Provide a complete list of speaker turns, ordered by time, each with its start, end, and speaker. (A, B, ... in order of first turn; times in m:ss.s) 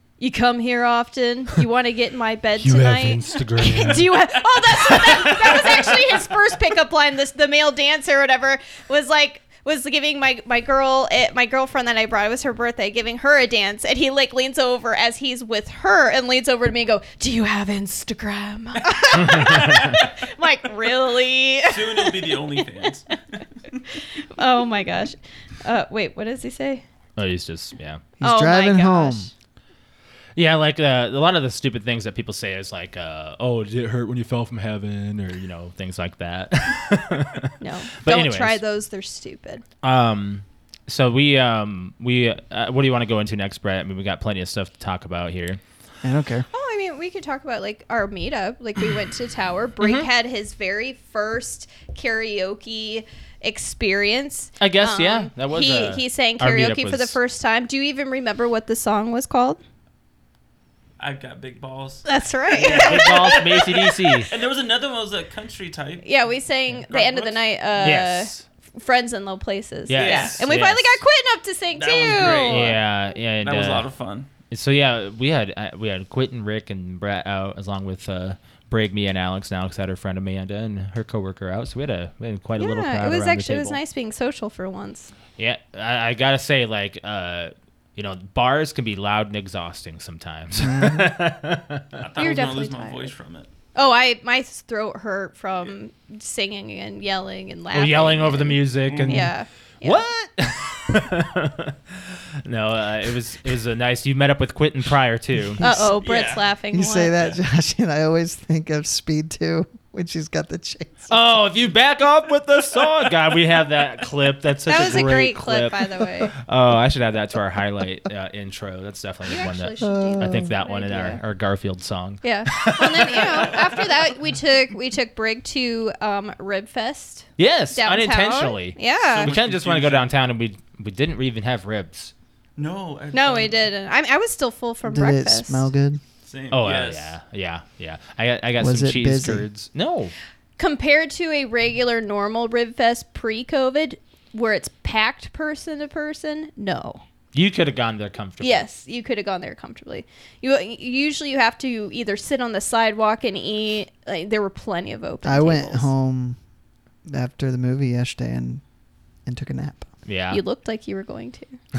0:00.2-0:22.6 A
0:02.6-0:04.2 B
0:04.8-0:05.8 B
0:05.2-0:05.9 C
0:19.0-0:20.0 C
0:21.6-0:23.8 C
0:23.9-0:26.8 A
0:27.2-0:28.0 B
0:28.2-0:29.3 D
0:28.2-0:29.3 A
0:30.4-0:38.6 B
0:37.6-0:39.6 A
0:39.8-0:45.6 B
0:46.0-0:46.5 D
0:46.5-0:59.6 A
0:49.8-0:50.1 B
0:54.6-0:57.2 B
1:01.0-1:06.1 C
1:02.1-1:03.7 A
1:02.6-1:04.3 B
1:06.0-1:12.8 A
1:06.9-1:07.5 C
1:07.8-1:08.4 B
1:09.9-1:11.0 B
1:09.9-1:10.5 C
1:11.7-1:12.8 C
1:12.2-1:13.9 B
1:13.4-1:14.3 C
1:14.5-1:23.8 B
1:22.6-1:25.1 A
1:25.4-1:32.0 B
1:30.6-1:31.2 D
1:32.0-1:33.5 C
1:32.2-1:33.1 A
1:33.8-1:40.1 A
1:37.7-1:45.6 B
1:38.9-1:39.3 C
1:45.6-1:46.0 D
1:45.6-1:47.2 A
1:46.0-1:46.5 C
1:46.7-1:51.1 D
1:51.1-2:03.8 B
1:54.7-1:56.3 A
1:59.3-2:01.2 A
1:59.8-2:00.5 D
2:02.2-2:09.3 A
2:07.4-2:12.1 B
2:09.0-2:10.1 C
2:12.6-2:13.6 C
2:13.1-2:15.7 A
2:14.8-2:16.0 D
2:16.2-2:17.1 C
2:16.5-2:20.1 B
2:18.6-2:19.5 D
2:20.6-2:27.0 A
2:27.3-2:28.7 B
2:28.4-2:35.9 A
2:35.2-2:36.4 D
2:37.1-2:38.6 D
2:39.3-2:39.9 D
2:40.1-2:40.4 B
2:40.3-2:41.6 A